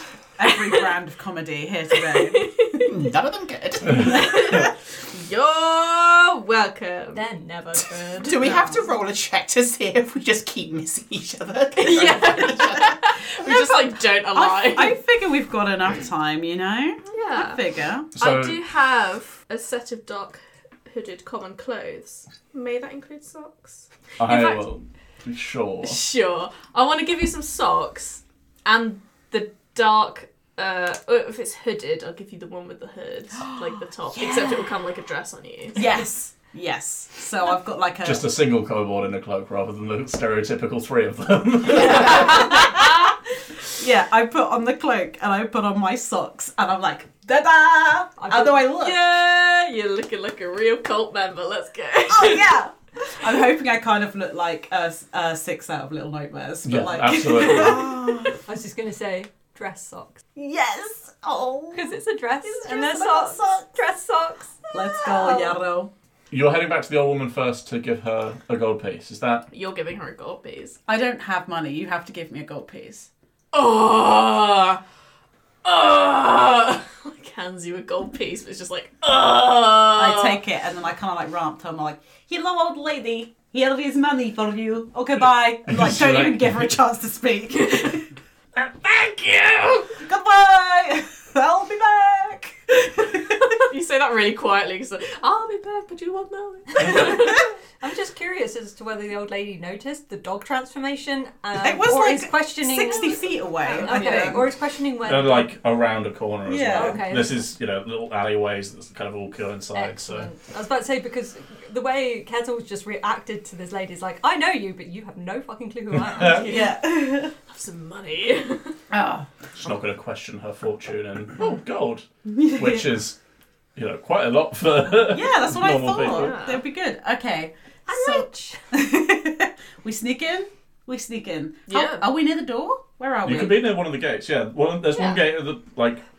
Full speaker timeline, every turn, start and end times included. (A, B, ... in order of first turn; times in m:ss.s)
0:00.4-0:02.6 A
0:02.2-0:03.0 B
0:02.8-0:04.3 C
0:04.0-0:07.2 B
0:07.2-0:08.8 D
0:08.2-0:13.0 C
0:11.8-0:15.0 B
0:13.4-0:18.1 A
0:17.1-0:17.6 B
0:18.2-0:18.6 E
0:18.2-0:24.6 B
0:24.2-0:26.0 E
0:25.8-0:35.9 B
0:34.1-0:34.6 A
0:35.8-0:38.3 A
0:38.0-0:42.8 E
0:41.6-0:43.1 A
0:41.9-0:43.1 B
0:43.8-0:49.0 A
0:48.2-0:48.7 D
0:48.8-0:52.6 B
0:52.1-0:58.4 A
0:56.6-0:58.0 E
0:57.4-0:58.3 B
0:58.5-1:00.2 D
1:00.4-1:01.7 A
1:00.6-1:01.2 B
1:01.7-1:05.6 D
1:02.4-1:03.6 B
1:04.7-1:05.9 A
1:06.3-1:09.5 E
1:09.5-1:10.8 B
1:10.9-1:13.1 A
1:13.5-1:14.8 B
1:15.6-1:20.4 B
1:19.9-1:28.0 A
1:25.7-1:26.8 E
1:27.6-1:27.9 B
1:28.6-1:29.9 B
1:30.0-1:33.6 A
1:33.6-1:37.5 B
1:36.8-1:37.2 D
1:37.8-1:45.5 D
1:41.5-1:44.4 A
1:43.8-1:44.4 B
1:45.0-1:50.3 E
1:46.4-1:47.0 A
1:46.7-1:47.4 D
1:49.7-1:56.5 D
1:55.9-1:56.6 E
1:56.2-1:56.8 B
1:56.4-1:57.3 A
1:57.5-1:58.8 B
1:58.9-1:59.3 C
1:59.6-2:03.2 E
2:02.3-2:02.8 A
2:03.8-2:06.4 E
2:05.1-2:13.7 A
2:06.0-2:06.6 B
2:07.9-2:08.6 D
2:11.7-2:12.1 B
2:13.2-2:16.0 E